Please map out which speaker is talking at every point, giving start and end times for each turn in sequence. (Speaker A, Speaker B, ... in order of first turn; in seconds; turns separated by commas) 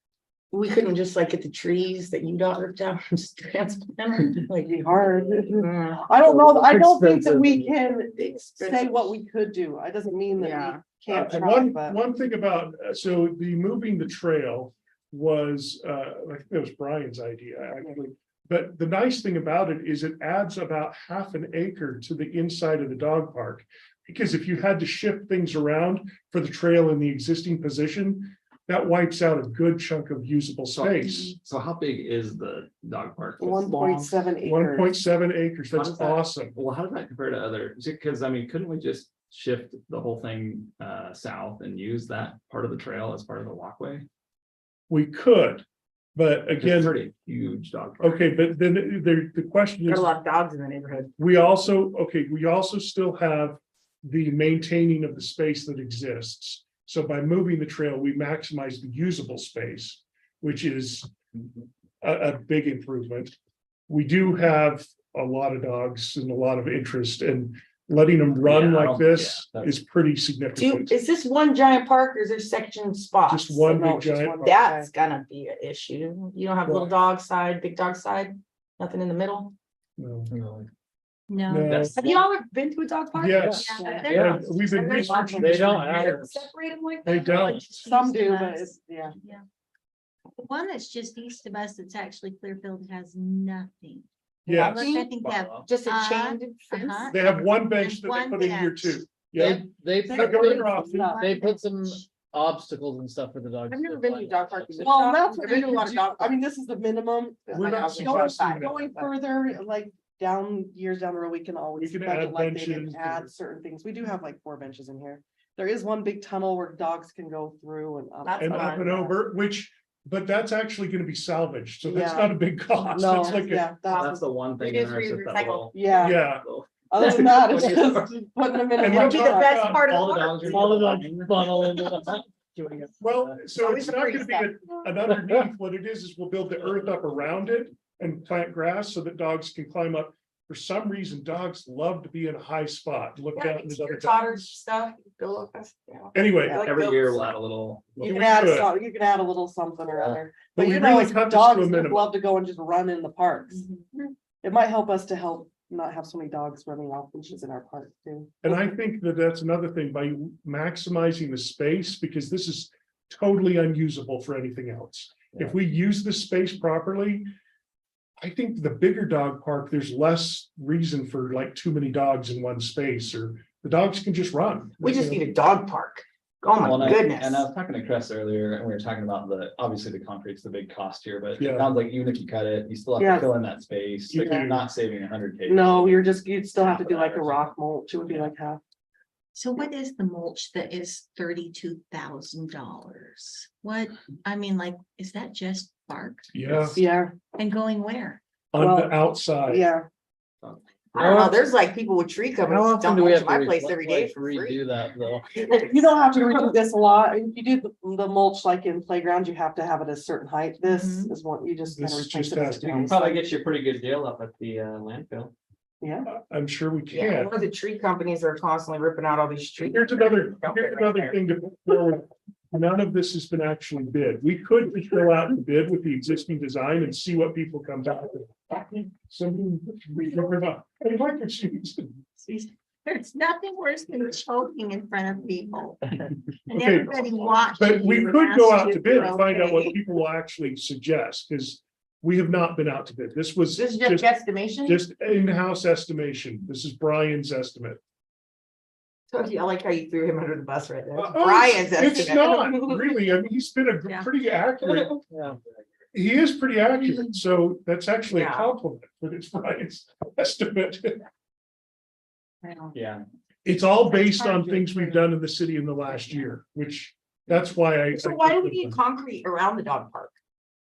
Speaker A: 0.5-4.8, Speaker B: 4.6-12.0, Speaker A: 5.5-6.1, Speaker C: 6.2-7.8, Speaker A: 8.2-9.2, Speaker A: 10.3-10.8, Speaker D: 11.1-31.4, Speaker E: 30.8-33.7, Speaker B: 33.4-34.9, Speaker A: 33.6-34.1, Speaker D: 34.4-36.6, Speaker E: 35.7-44.1, Speaker D: 44.9-45.6, Speaker D: 46.1-47.0, Speaker E: 46.5-48.3, Speaker D: 48.0-50.1, Speaker A: 49.9-51.1, Speaker D: 51.2-61.1, Speaker D: 62.0-63.3, Speaker D: 63.9-71.0, Speaker E: 68.4-69.8, Speaker A: 70.5-73.8, Speaker D: 73.3-74.6, Speaker B: 73.7-74.9, Speaker A: 74.4-79.5, Speaker D: 76.6-76.9, Speaker D: 80.0-80.3, Speaker C: 80.3-80.7, Speaker F: 81.3-81.8, Speaker D: 81.5-82.0, Speaker E: 81.6-82.3, Speaker A: 82.0-84.1, Speaker D: 83.1-85.8, Speaker C: 83.4-84.5, Speaker F: 83.5-84.4, Speaker B: 83.8-85.6, Speaker A: 84.6-87.6, Speaker C: 85.3-86.5, Speaker D: 87.0-87.6, Speaker F: 87.3-89.4, Speaker B: 87.8-89.1, Speaker F: 90.4-99.0, Speaker D: 94.5-94.9, Speaker A: 94.5-95.1, Speaker E: 95.2-95.7, Speaker A: 95.6-97.2, Speaker D: 97.1-101.2, Speaker C: 99.3-104.9, Speaker B: 99.4-101.3, Speaker A: 103.7-106.4, Speaker B: 104.8-119.1, Speaker D: 107.5-108.9, Speaker A: 107.5-109.1, Speaker D: 111.8-113.3, Speaker A: 118.2-119.1, Speaker D: 118.4-123.7, Speaker B: 121.8-122.4, Speaker B: 122.9-124.3, Speaker E: 123.9-128.2, Speaker A: 124.6-125.7, Speaker B: 125.7-126.2, Speaker D: 126.0-126.4, Speaker B: 126.9-129.6, Speaker D: 128.8-129.9, Speaker A: 128.8-130.7, Speaker E: 129.2-131.9, Speaker C: 130.4-132.2, Speaker E: 132.5-133.4, Speaker D: 133.0-144.5, Speaker A: 133.4-134.6, Speaker C: 135.1-135.4, Speaker A: 143.3-147.3, Speaker D: 146.1-146.7, Speaker E: 146.6-148.5, Speaker D: 148.0-148.7, Speaker B: 148.0-158.6, Speaker C: 149.9-150.2, Speaker D: 150.5-152.1, Speaker D: 158.4-167.3, Speaker D: 168.2-175.2, Speaker A: 174.8-177.5, Speaker E: 176.6-187.4, Speaker D: 181.4-181.7, Speaker B: 183.0-183.3, Speaker D: 184.1-184.7, Speaker B: 185.4-188.6, Speaker F: 189.3-196.5, Speaker D: 196.3-196.8, Speaker B: 196.8-197.1, Speaker F: 197.3-198.2, Speaker D: 198.5-199.7, Speaker B: 198.6-199.9, Speaker A: 200.9-204.7, Speaker C: 201.0-201.4, Speaker C: 202.4-205.2, Speaker A: 205.3-205.7, Speaker B: 205.5-213.2, Speaker F: 210.6-211.1, Speaker D: 211.7-213.0, Speaker E: 212.9-215.3, Speaker B: 215.8-216.1, Speaker D: 216.1-217.3, Speaker A: 216.9-221.2, Speaker D: 219.7-231.9, Speaker F: 232.2-235.8, Speaker F: 236.5-239.3, Speaker D: 236.5-244.1, Speaker A: 239.0-239.7, Speaker A: 243.5-244.8, Speaker D: 244.6-247.8, Speaker A: 249.1-252.9, Speaker D: 250.9-254.9, Speaker A: 254.6-255.0, Speaker C: 255.1-255.4, Speaker D: 255.9-261.0, Speaker A: 258.1-258.5, Speaker A: 262.4-262.7, Speaker E: 262.7-263.0, Speaker D: 263.4-268.8, Speaker F: 263.9-264.2, Speaker A: 264.2-264.9, Speaker A: 267.9-270.1